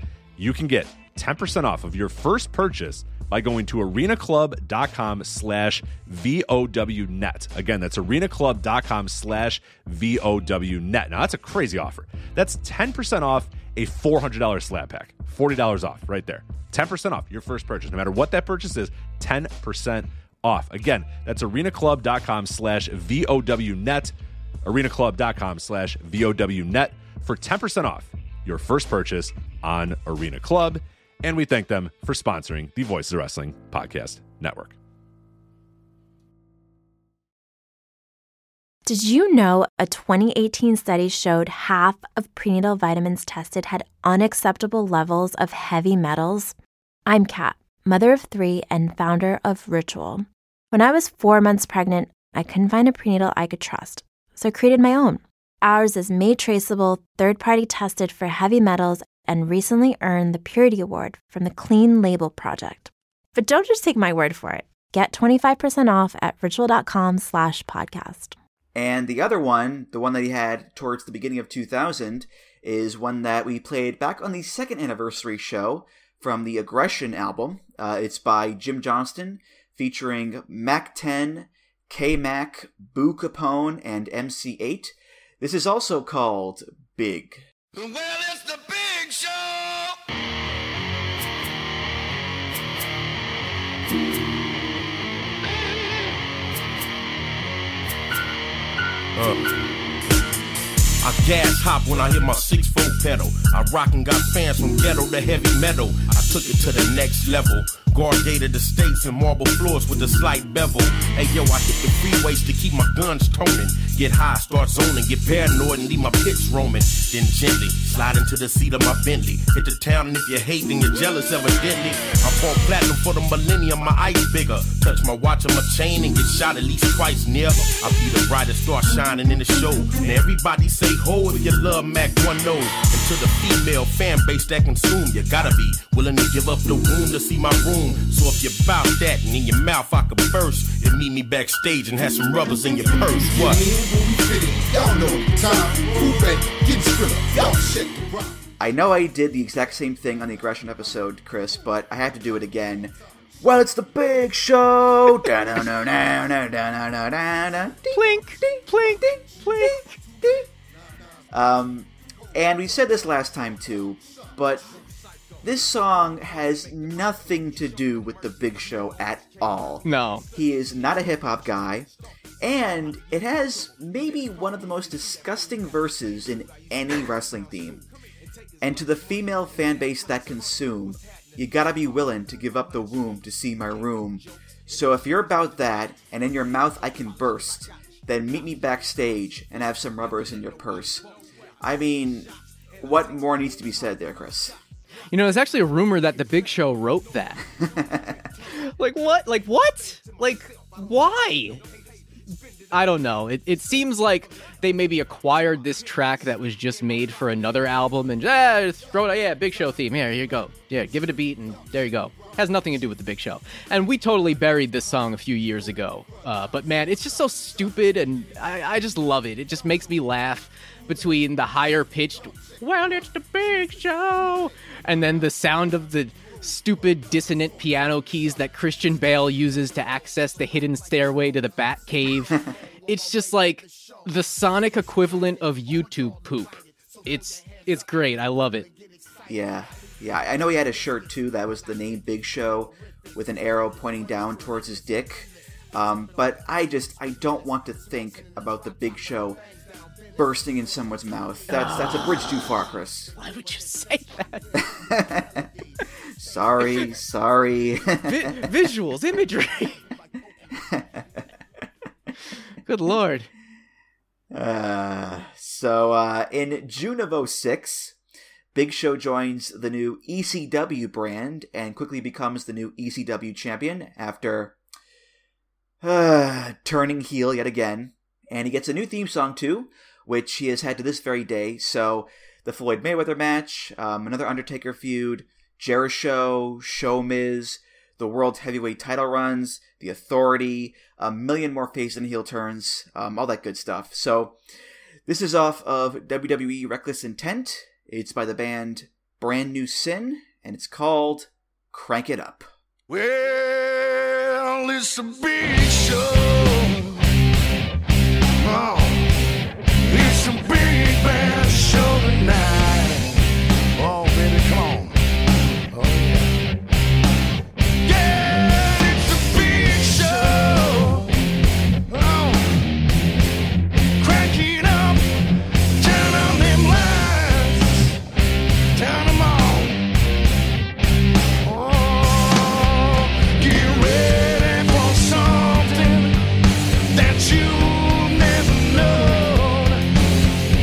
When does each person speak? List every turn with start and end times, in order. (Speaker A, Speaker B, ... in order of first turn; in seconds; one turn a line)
Speaker A: 0.4-34.8
Speaker B: 38.9-46.5
Speaker B: 47.1-68.3
Speaker C: 68.8-87.4
Speaker D: 87.7-90.0
Speaker E: 99.2-99.5
Speaker E: 101.0-143.7
Speaker D: 143.8-146.3
Speaker D: 146.8-147.8
Speaker C: 148.6-160.5
Speaker F: 157.9-160.0
Speaker C: 161.3-164.7
Speaker C: 165.4-171.9
Speaker F: 169.8-170.3
Speaker C: 172.4-177.8
Speaker C: 178.6-191.1
Speaker C: 191.6-194.6
Speaker F: 195.1-197.4
Speaker C: 197.6-198.2
Speaker F: 198.5-201.6
Speaker F: 202.7-238.7
Speaker C: 239.3-249.4
Speaker C: 250.2-253.2
Speaker F: 251.5-252.5
Speaker F: 253.2-254.5
Speaker C: 254.6-255.5
Speaker C: 256.1-258.4
Speaker F: 258.1-259.8
Speaker C: 260.7-261.0
Speaker F: 262.6-263.3
Speaker C: 264.3-268.0
Speaker C: 268.5-274.6
Speaker C: 275.8-294.4
Speaker C: 295.1-302.5
Speaker D: 302.9-307.0
Speaker D: 308.4-309.1
Speaker D: 309.8-313.2
Speaker D: 313.8-315.0
Speaker D: 315.7-316.4
Speaker D: 317.8-321.1
Speaker D: 321.9-322.6
Speaker D: 324.0-325.1
Speaker D: 325.8-328.0
Speaker D: 328.8-329.8
Speaker D: 331.4-336.2
Speaker D: 336.9-339.9